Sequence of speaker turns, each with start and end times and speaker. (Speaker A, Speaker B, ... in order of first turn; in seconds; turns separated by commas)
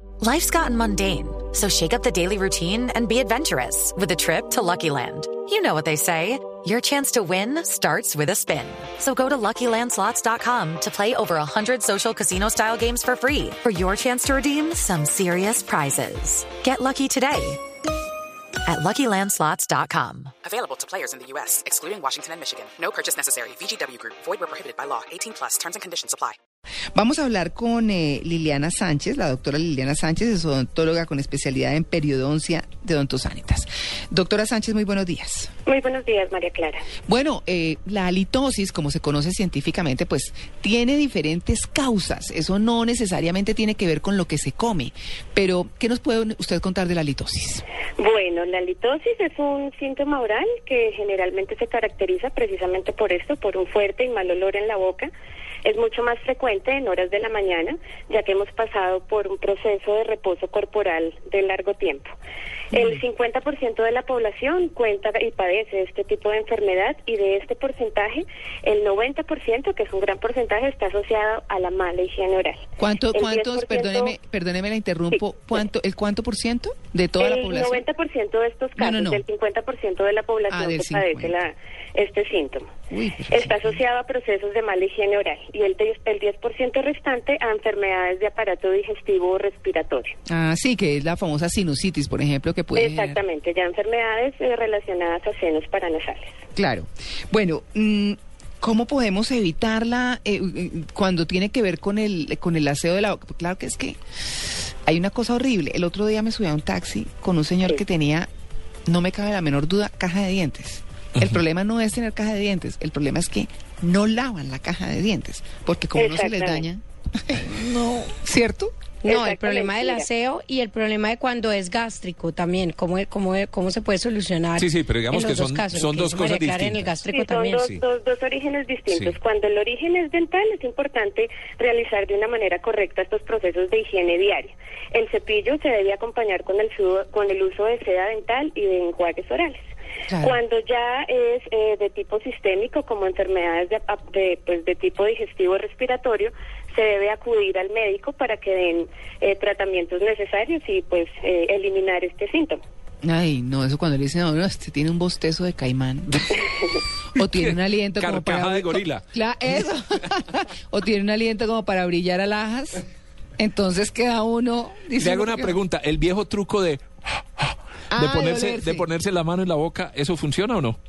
Speaker A: 0.2-17.6, Speaker A: 18.6-20.3, Speaker B: 20.4-26.4, Speaker C: 26.9-35.5, Speaker D: 35.7-36.9, Speaker C: 37.1-47.6, Speaker D: 48.0-55.1, Speaker D: 55.6-62.1, Speaker D: 62.7-72.6, Speaker C: 72.8-77.8, Speaker D: 73.1-74.2, Speaker D: 77.2-82.7, Speaker C: 78.8-79.2, Speaker C: 80.5-81.4, Speaker C: 82.9-83.8, Speaker D: 83.3-90.1, Speaker C: 90.3-93.2, Speaker D: 92.8-96.3, Speaker C: 96.5-104.0, Speaker C: 104.9-108.3, Speaker C: 108.9-119.5, Speaker D: 116.0-116.7, Speaker D: 119.0-120.1, Speaker E: 119.2-127.7, Speaker F: 124.6-127.8, Speaker D: 127.1-139.7, Speaker F: 128.9-129.2, Speaker C: 140.1-140.4, Speaker D: 140.2-152.6, Speaker C: 153.0-156.5, Speaker C: 157.2-162.8, Speaker F: 157.2-159.7, Speaker C: 163.4-165.6, Speaker F: 165.0-170.8, Speaker C: 167.9-168.9